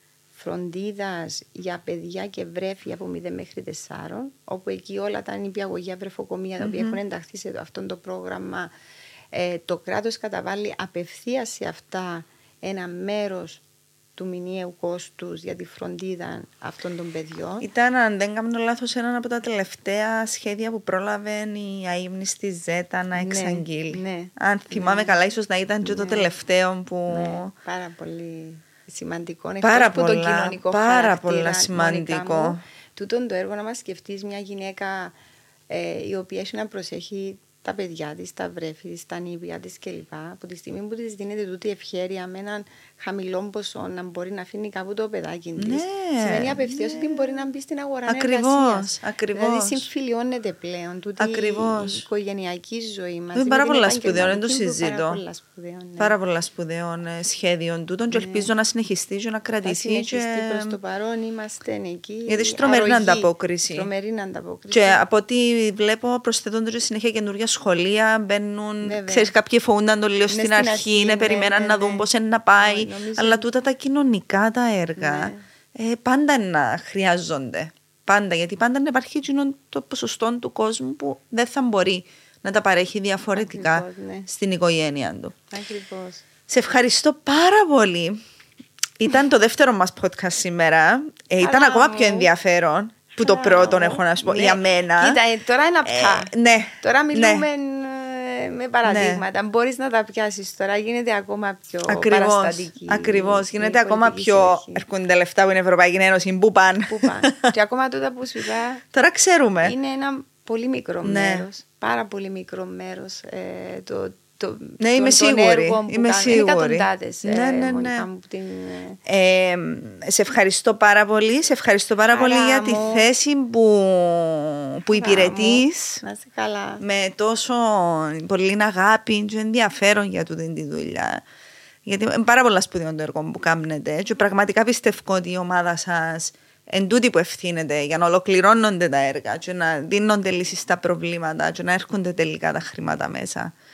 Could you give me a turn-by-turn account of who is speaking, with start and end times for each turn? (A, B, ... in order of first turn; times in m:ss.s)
0:00.4-0:08.7 A
0:06.6-0:07.0 B
0:09.3-0:13.6 A
0:14.2-0:17.7 A
0:17.6-0:27.5 B
0:23.1-0:25.2 A
0:25.8-0:26.3 A
0:27.1-0:35.1 A
0:29.6-0:32.6 B
0:35.7-0:56.1 A
0:45.6-0:47.4 B
0:48.1-0:49.8 B
0:51.2-0:52.0 B
0:53.3-0:55.2 B
0:56.0-1:00.7 B
0:58.1-0:58.5 A
0:59.6-1:05.0 A
1:02.3-1:03.9 B
1:04.7-1:25.3 B
1:08.8-1:09.3 A
1:10.3-1:13.4 A
1:15.0-1:15.4 A
1:23.4-1:24.3 A
1:25.5-1:26.2 A
1:26.5-1:28.2 B
1:29.0-1:35.2 B
1:31.4-1:32.3 A
1:33.1-1:44.8 A
1:35.8-1:37.4 B
1:38.8-1:39.2 B
1:41.9-1:47.5 B
1:46.9-1:48.8 A
1:48.9-1:49.7 B
1:49.6-1:59.0 A
1:51.0-1:51.4 B
1:54.8-1:58.1 B
1:59.0-2:06.0 B
2:02.1-2:03.1 A
2:04.9-2:06.8 A
2:06.8-2:11.2 B
2:11.8-2:23.5 B